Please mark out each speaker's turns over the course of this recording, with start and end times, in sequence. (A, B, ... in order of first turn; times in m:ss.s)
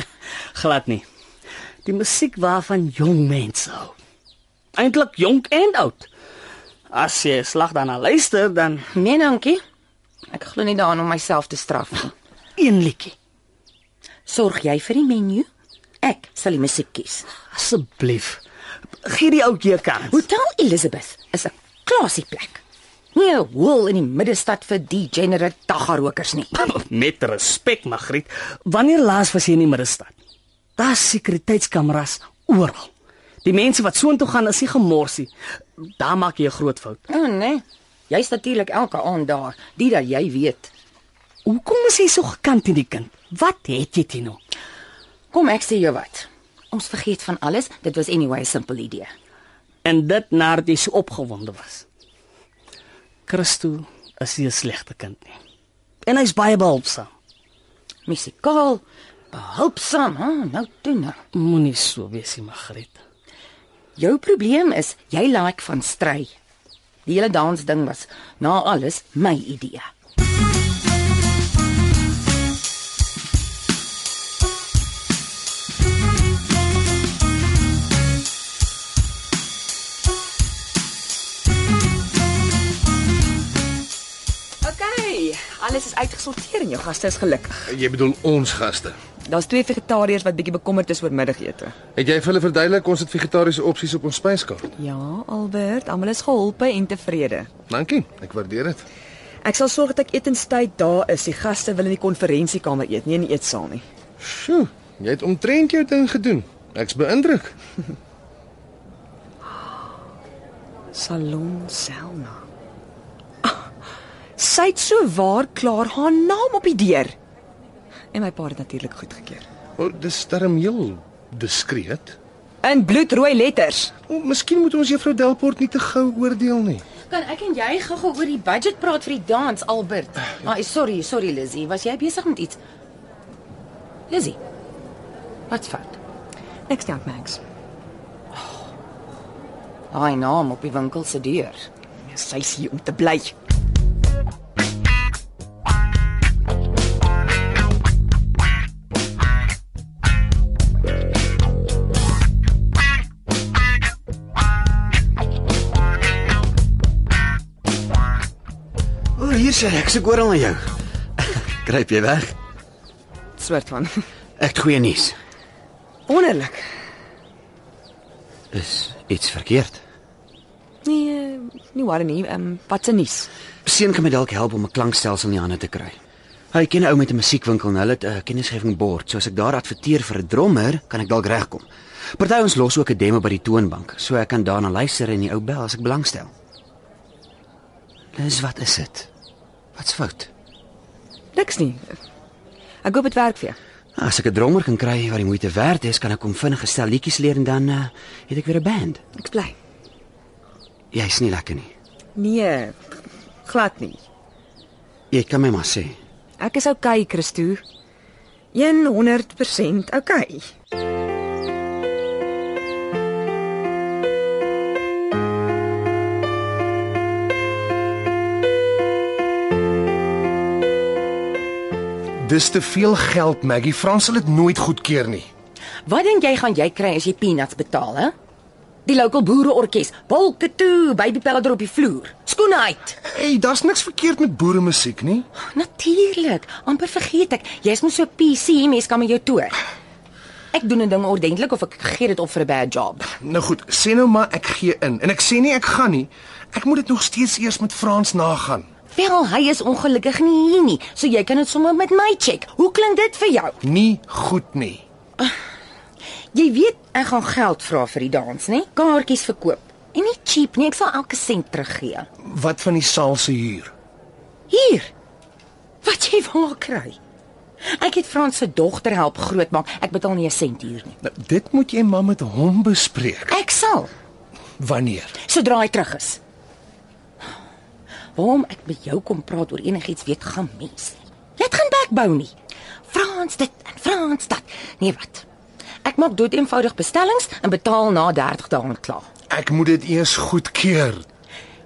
0:00.5-0:01.0 A
0:01.8-0:03.9 A
0:04.8-0:06.1 A
0:06.9-0:08.8 A
0:08.9-0:09.6 B
0:10.3-0:12.1 B
0:12.6-0:13.1 A
0:14.3-0:15.5 B
0:16.0-0:17.2 B
0:17.5-0:18.4 A
0:19.0-0:20.2 A
0:20.1-0:22.6 B
0:23.1-0:26.6 B
0:26.6-0:30.1 A
0:30.8-0:32.9 A
0:33.4-0:35.3 A
0:36.0-0:37.0 A
0:37.1-0:40.7 B
0:41.4-0:44.4 A
0:45.3-0:49.1 B
0:49.8-0:51.8 A
0:53.3-0:55.4 A
0:56.0-0:57.1 A
0:58.0-1:01.2 B
1:01.3-1:03.0 A
1:04.0-1:06.3 B
1:07.0-1:09.9 B
1:24.6-1:27.6 C
1:27.7-1:29.0 D
1:29.3-1:31.7 C
1:31.9-1:34.6 D
1:34.8-1:37.5 C
1:37.7-1:38.8 D
1:39.4-1:43.8 C
1:44.2-1:47.5 D
1:50.9-1:52.4 C
1:54.4-1:57.1 C
1:58.1-1:59.4 C
1:59.8-2:02.2 D
2:02.6-2:03.9 C
2:04.1-2:06.8 D
2:07.0-2:12.6 B
2:14.1-2:14.4 B
2:15.5-2:16.0 B
2:16.7-2:17.4 C
2:19.9-2:21.6 B
2:22.1-2:23.3 C
2:39.2-2:42.3 E
2:43.4-2:44.0 C
2:44.4-2:45.2 E
2:46.1-2:46.6 C
2:48.5-2:49.8 E
2:50.8-2:53.3 C
2:53.6-2:56.0 E
2:56.5-3:06.3 E
3:08.1-3:09.1 E
3:09.7-3:10.3 E
3:11.3-3:12.0 C
3:12.8-3:13.6 C
3:13.9-3:19.0 E
3:19.2-3:19.5 C
3:20.9-3:21.7 E
3:22.1-3:22.8 C
3:23.4-3:24.0 C
3:25.1-3:26.0 E
3:26.4-3:27.6 C
3:28.5-3:30.4 C
3:42.2-3:45.3 D
3:45.8-3:48.1 B
3:48.8-3:53.0 B
3:53.0-3:55.3 D
3:55.3-3:59.6 B
4:00.5-4:03.0 B
4:03.2-4:08.7 D
4:08.9-4:13.6 B
4:13.6-4:14.8 D
4:16.3-4:22.1 B
4:22.2-4:23.7 D
4:24.5-4:24.9 B
4:25.8-4:27.0 B
4:27.6-4:31.0 B
4:31.0-4:33.4 D
4:33.3-4:33.9 B
4:34.6-4:35.2 D
4:35.2-4:36.2 B
4:38.1-4:42.3 B
4:42.9-4:45.2 B
4:45.8-4:49.1 B
4:49.3-4:51.0 D